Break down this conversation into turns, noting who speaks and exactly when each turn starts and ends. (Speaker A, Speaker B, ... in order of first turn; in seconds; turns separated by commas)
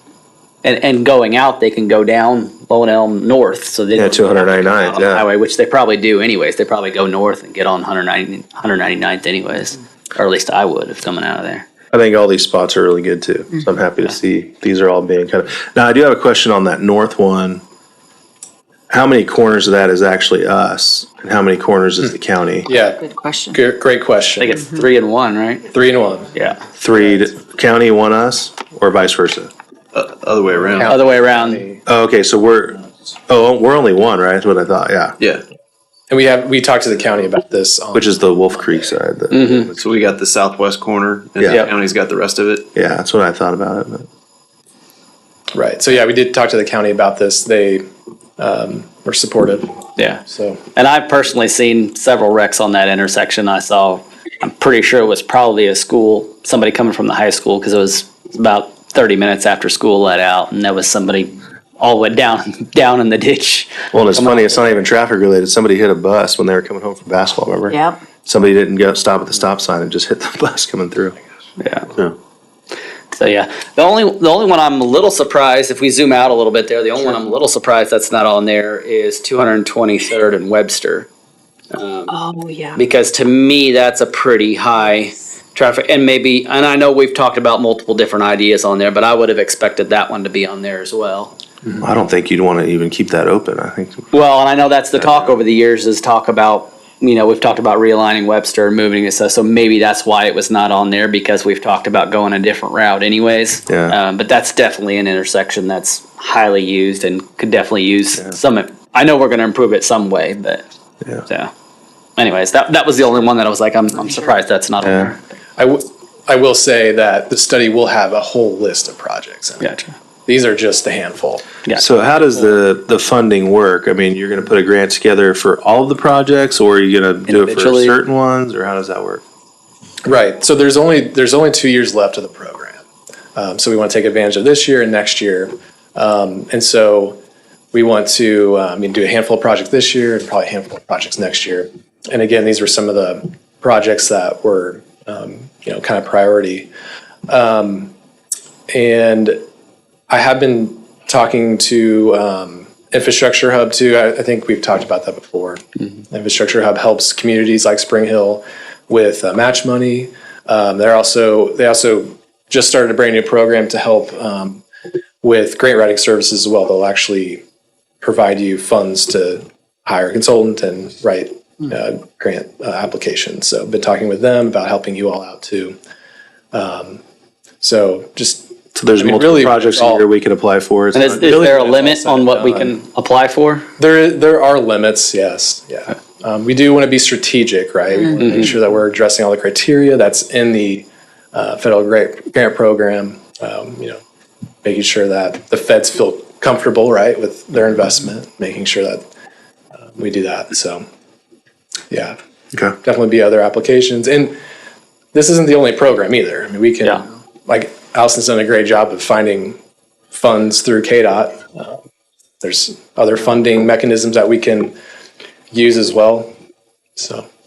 Speaker A: 0.6-11.7, Speaker B: 4.0-5.3, Speaker B: 11.9-17.6, Speaker B: 18.9-22.7, Speaker C: 22.7-23.0, Speaker D: 22.7-23.6, Speaker C: 23.5-24.6, Speaker A: 24.4-25.7, Speaker D: 24.6-24.8, Speaker C: 25.7-26.4, Speaker A: 26.3-26.6, Speaker B: 26.8-29.5, Speaker E: 29.9-30.9, Speaker C: 30.5-31.8, Speaker A: 30.8-31.6, Speaker B: 31.9-35.2, Speaker E: 35.2-35.4, Speaker C: 36.1-38.9, Speaker B: 37.9-39.9, Speaker A: 39.3-39.7, Speaker E: 39.7-42.7, Speaker B: 41.4-41.7, Speaker A: 41.5-41.7, Speaker B: 42.7-44.1, Speaker C: 45.5-47.8, Speaker C: 48.4-50.6, Speaker A: 50.0-64.8, Speaker B: 63.9-71.2, Speaker A: 71.6-71.9, Speaker A: 73.1-81.1, Speaker A: 81.7-82.2, Speaker D: 82.1-82.8, Speaker A: 82.8-91.3, Speaker B: 91.8-94.1, Speaker A: 94.1-110.6, Speaker B: 95.0-95.3, Speaker B: 103.7-104.0, Speaker A: 111.2-111.5, Speaker A: 112.2-115.2, Speaker B: 114.8-115.1, Speaker C: 115.6-119.7, Speaker A: 119.6-120.0, Speaker C: 120.3-121.5, Speaker A: 121.7-122.5, Speaker B: 121.8-129.2, Speaker A: 127.3-128.0, Speaker C: 130.1-132.8, Speaker C: 133.3-137.2, Speaker C: 137.7-146.7, Speaker C: 147.3-147.9, Speaker C: 148.7-149.4, Speaker C: 150.1-164.6, Speaker C: 165.2-167.4, Speaker C: 168.0-175.8, Speaker C: 176.5-177.0, Speaker C: 177.6-180.1, Speaker B: 178.8-181.3, Speaker A: 180.9-183.7, Speaker C: 181.1-182.8, Speaker C: 183.8-194.0, Speaker A: 188.2-188.5, Speaker C: 194.6-199.0, Speaker C: 200.0-200.8, Speaker C: 201.9-202.2, Speaker C: 202.8-204.3, Speaker C: 205.1-209.6, Speaker C: 210.1-211.8, Speaker C: 212.4-214.8, Speaker C: 215.5-216.3, Speaker C: 217.0-217.2